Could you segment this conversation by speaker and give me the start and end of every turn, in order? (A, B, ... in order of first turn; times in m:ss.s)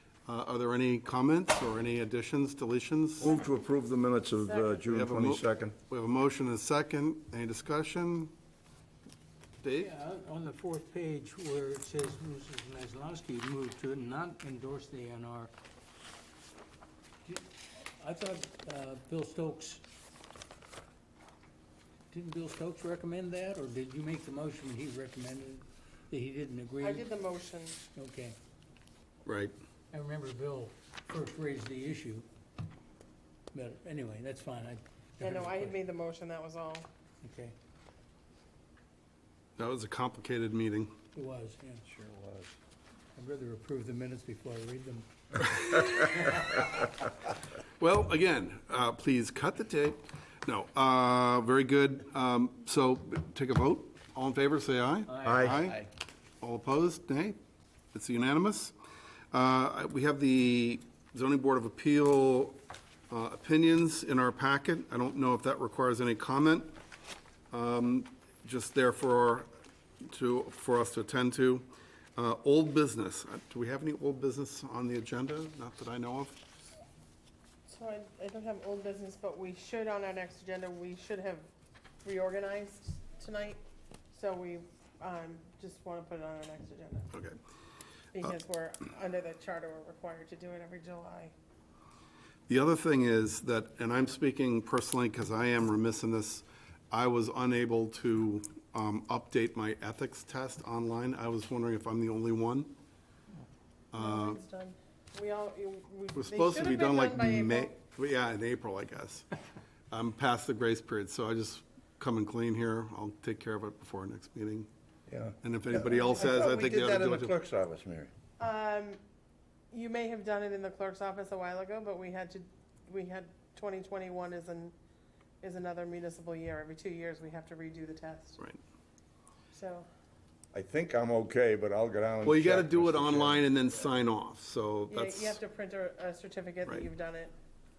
0:00.3-0:03.3 A
0:03.2-0:05.8 B
0:04.4-0:04.8 C
0:04.9-0:08.3 A
0:09.6-0:09.9 A
0:09.8-0:15.5 D
0:18.0-0:19.8 D
0:22.1-0:27.1 D
0:26.8-0:27.8 C
0:28.0-0:28.4 D
0:29.3-0:29.5 A
0:29.9-0:32.3 D
0:33.5-0:35.8 D
0:35.2-0:36.9 C
0:37.2-0:37.5 D
0:39.6-0:41.0 A
0:41.2-0:41.8 D
0:41.9-0:42.5 B
0:43.2-0:46.6 D
0:47.8-0:55.9 A
0:55.1-0:55.6 D
0:55.3-0:55.5 B
0:56.4-0:57.4 A
0:57.9-0:58.7 A
0:59.3-1:06.8 A
1:07.5-1:09.5 A
1:10.1-1:16.4 A
1:17.7-1:21.4 C
1:22.0-1:23.6 C
1:24.1-1:27.1 C
1:28.1-1:31.3 C
1:32.5-1:42.7 A
1:43.9-1:44.4 A
1:44.0-1:47.8 C
1:46.2-1:49.3 A
1:49.9-1:54.7 A
1:55.1-1:58.1 B
1:55.4-1:57.3 A
1:58.4-1:59.0 C
1:59.7-2:04.7 C
2:05.4-2:08.4 C
2:09.5-2:09.9 C
2:10.5-2:13.5 B
2:12.2-2:15.4 A
2:14.9-2:17.3 C